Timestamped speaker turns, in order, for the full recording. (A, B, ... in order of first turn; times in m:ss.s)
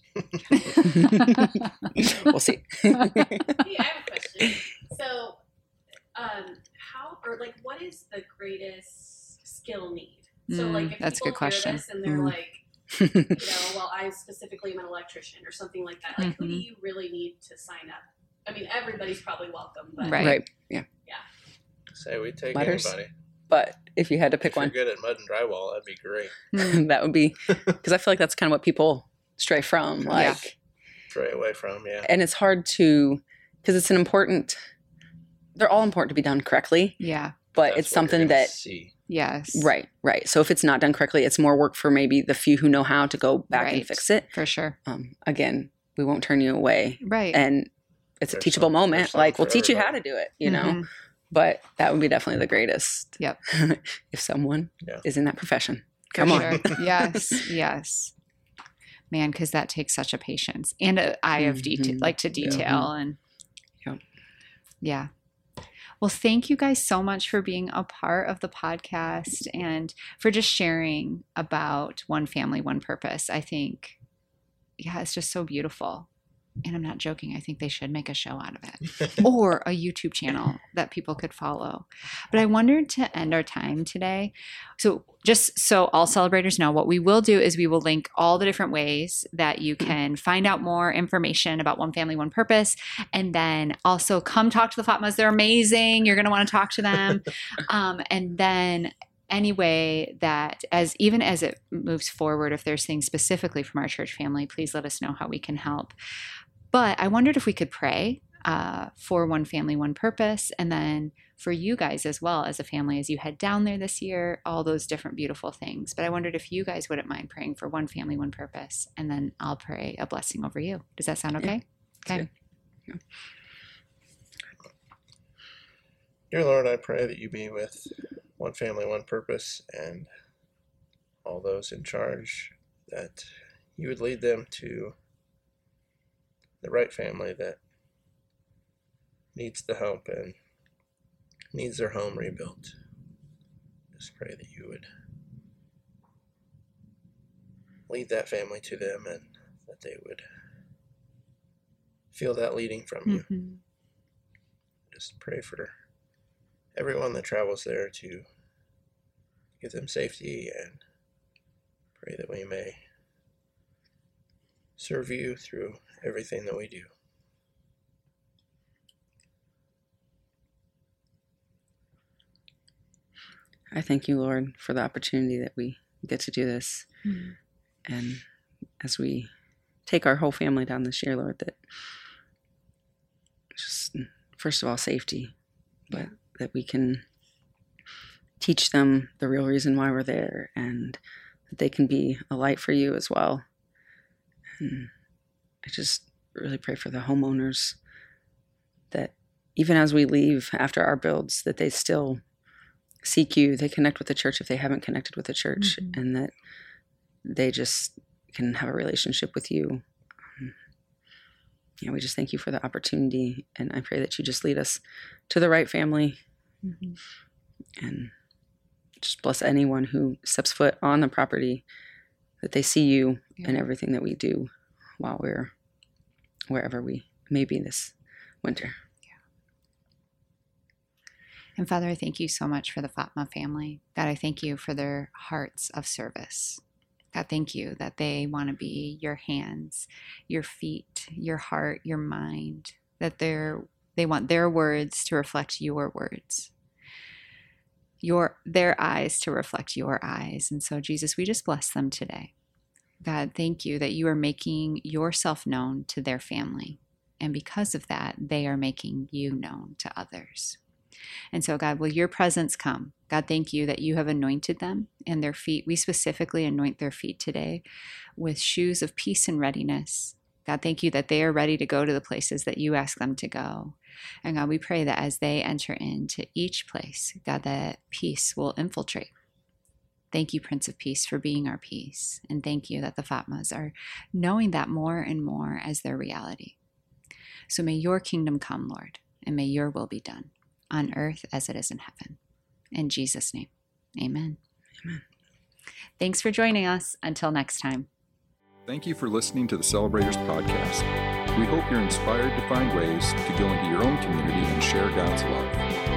0:00.5-0:01.9 A
0:00.8-0:03.7 B
0:02.9-0:03.4 A
0:03.6-0:05.4 C
0:06.1-0:12.6 C
0:10.5-0:11.9 A
0:12.0-0:12.4 B
0:12.9-0:13.6 B
0:13.2-0:20.4 C
0:16.2-0:16.6 A
0:20.0-0:20.4 A
0:20.1-0:20.9 B
0:21.9-0:23.1 D
0:22.5-0:23.0 B
0:23.5-0:24.7 B
0:24.4-0:26.5 D
0:26.5-0:26.8 A
0:26.6-0:30.5 B
0:30.1-0:30.4 A
0:31.1-0:32.1 D
0:32.0-0:34.6 B
0:35.6-0:37.0 B
0:37.0-0:37.4 A
0:37.5-0:38.5 B
0:37.6-0:38.9 D
0:39.1-0:39.7 A
0:39.5-0:44.3 B
0:43.5-0:44.8 A
0:44.9-0:57.4 B
0:47.0-0:47.4 A
0:48.3-0:50.0 D
0:50.4-0:50.9 A
0:56.1-0:58.1 A
0:56.3-0:56.7 D
0:59.1-1:03.2 A
1:01.4-1:02.9 B
1:04.8-1:05.1 A
1:06.0-1:14.0 A
1:14.8-1:16.1 A
1:16.6-1:45.9 A
1:46.7-2:02.3 A
2:06.3-2:10.1 D
2:11.2-2:15.0 D
2:16.6-2:17.6 D
2:19.4-2:20.4 D
2:21.5-2:22.7 D
2:23.9-2:24.9 D
2:27.9-2:30.2 D
2:32.1-2:33.3 D
2:33.1-2:33.6 A
2:34.9-2:35.7 D
2:36.7-2:38.2 D
2:39.6-2:40.8 D
2:42.0-2:42.8 D
2:44.8-2:46.9 D
2:53.7-2:56.9 B
2:57.0-2:57.4 A
2:57.9-2:58.2 B
2:58.8-2:59.3 B
2:59.9-3:01.6 B
3:03.5-3:05.3 B
3:05.9-3:07.0 B
3:08.4-3:11.0 B
3:11.5-3:13.4 B
3:14.6-3:14.9 B
3:15.6-3:17.8 B
3:18.9-3:22.2 B
3:23.0-3:26.3 B
3:25.6-3:25.9 A
3:27.2-3:29.8 B
3:31.8-3:36.2 B
3:36.6-3:37.0 A
3:37.8-3:38.1 B
3:39.0-3:41.6 B
3:42.4-3:45.5 B
3:43.4-3:43.6 A
3:46.5-3:48.8 B
3:51.6-3:56.6 A
3:57.1-4:06.5 A
4:08.0-4:12.3 A
4:13.0-4:20.6 A
4:21.3-4:27.6 A
4:28.2-4:39.1 A
4:40.1-4:46.6 A
4:47.5-4:52.2 A
4:52.7-4:54.4 A
4:56.0-4:57.9 A
4:58.7-5:05.6 E